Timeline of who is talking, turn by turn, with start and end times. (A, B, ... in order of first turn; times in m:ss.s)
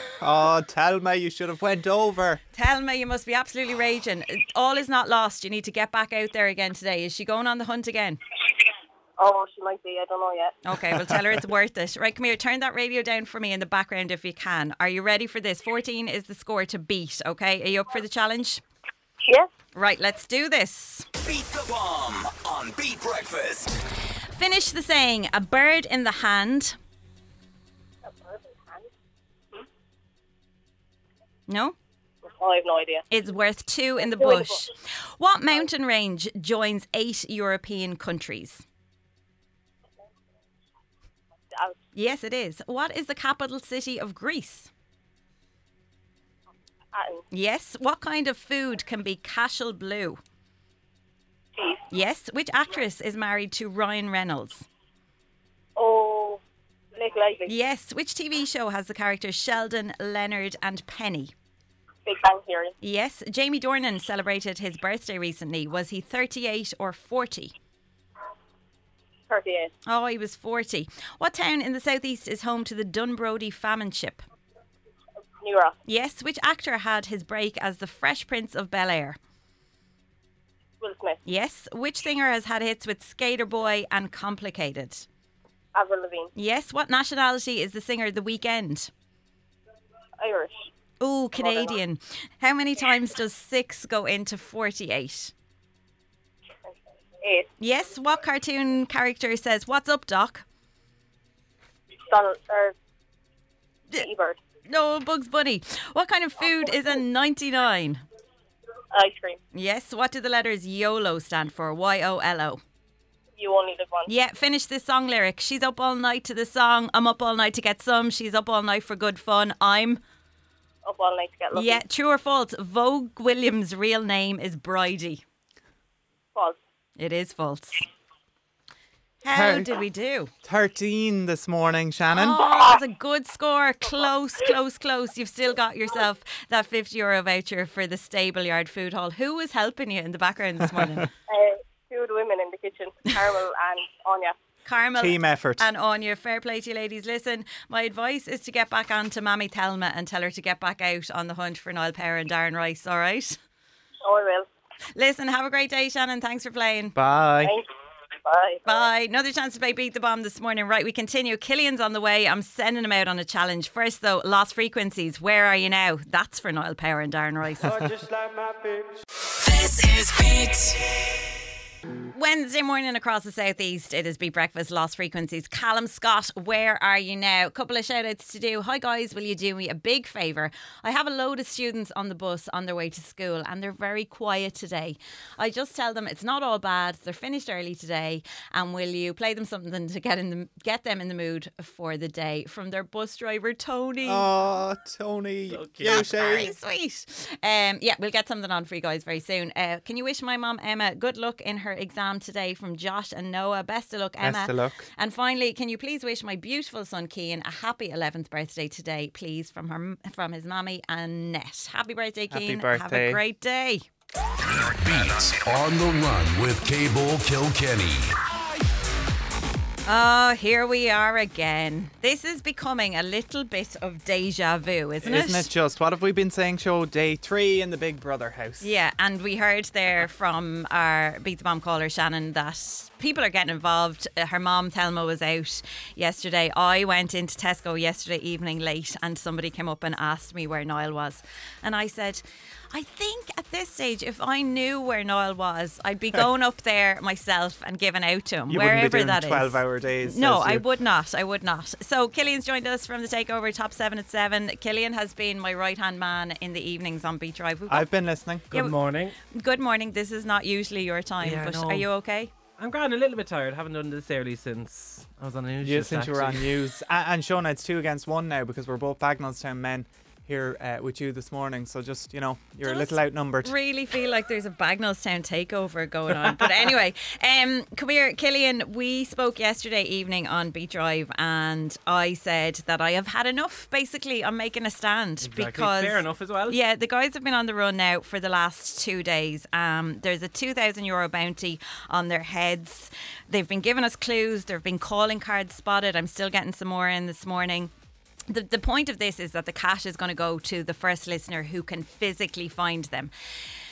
0:00.2-0:02.4 A
0:02.5-0:08.2 B
0:09.2-0:10.6 C
0:10.6-0:18.6 B
0:10.9-0:11.4 A
0:19.7-0:21.1 B
0:21.2-0:23.7 D
0:24.4-0:26.8 B
0:28.1-0:28.4 C
0:31.5-0:31.8 B
0:32.2-0:33.0 C
0:33.1-0:38.6 B
0:34.0-0:34.6 C
0:42.0-0:44.7 B
0:46.9-0:47.2 C
0:47.3-0:50.2 B
0:51.9-0:54.6 B
0:55.8-0:56.4 C
0:56.9-0:57.5 C
0:57.5-1:01.3 B
1:02.1-1:02.7 C
1:02.8-1:07.5 B
1:09.3-1:09.7 C
1:09.9-1:14.2 B
1:15.4-1:15.8 C
1:15.9-1:19.2 B
1:20.8-1:21.2 C
1:21.3-1:25.1 B
1:25.7-1:26.3 C
1:26.4-1:28.9 B
1:30.2-1:30.6 C
1:31.0-1:35.3 B
1:31.4-1:31.8 C
1:37.2-1:37.5 C
1:37.6-1:40.4 B
1:42.1-1:42.8 C
1:43.9-1:44.4 C
1:44.7-1:48.0 B
1:48.9-1:49.4 C
1:49.5-1:52.6 B
1:53.4-1:54.1 C
1:54.1-2:00.0 B
2:00.8-2:01.8 C
2:01.5-2:05.2 B
2:07.0-2:07.8 B
2:09.2-2:10.3 B
2:09.3-2:09.7 A
2:10.4-2:12.4 A
2:12.1-2:21.1 B
2:20.8-2:21.0 A
2:21.3-2:24.4 C
2:24.6-2:33.4 B
2:25.0-2:25.6 A
2:34.0-2:34.5 C
2:34.9-2:36.9 B
2:36.9-2:37.6 A
2:38.2-2:38.6 C
2:38.6-2:47.8 B
2:47.6-2:48.9 A
2:52.1-3:14.3 B
3:14.0-3:16.5 A
3:15.5-3:16.5 E
3:15.8-3:33.8 B
3:24.2-3:24.9 A
3:32.3-3:33.2 A
3:34.5-3:38.1 F
3:39.9-3:45.5 B
3:45.0-3:48.7 A
3:48.6-4:17.9 B
4:08.5-4:10.6 A
4:17.7-4:18.5 A
4:18.5-4:19.1 E
4:18.5-4:22.3 B
4:21.2-4:21.9 E
4:22.6-4:26.6 E
4:25.6-4:33.5 A
4:32.6-4:57.7 B
4:36.1-4:36.7 E
4:45.2-4:46.6 E
4:58.3-5:03.1 B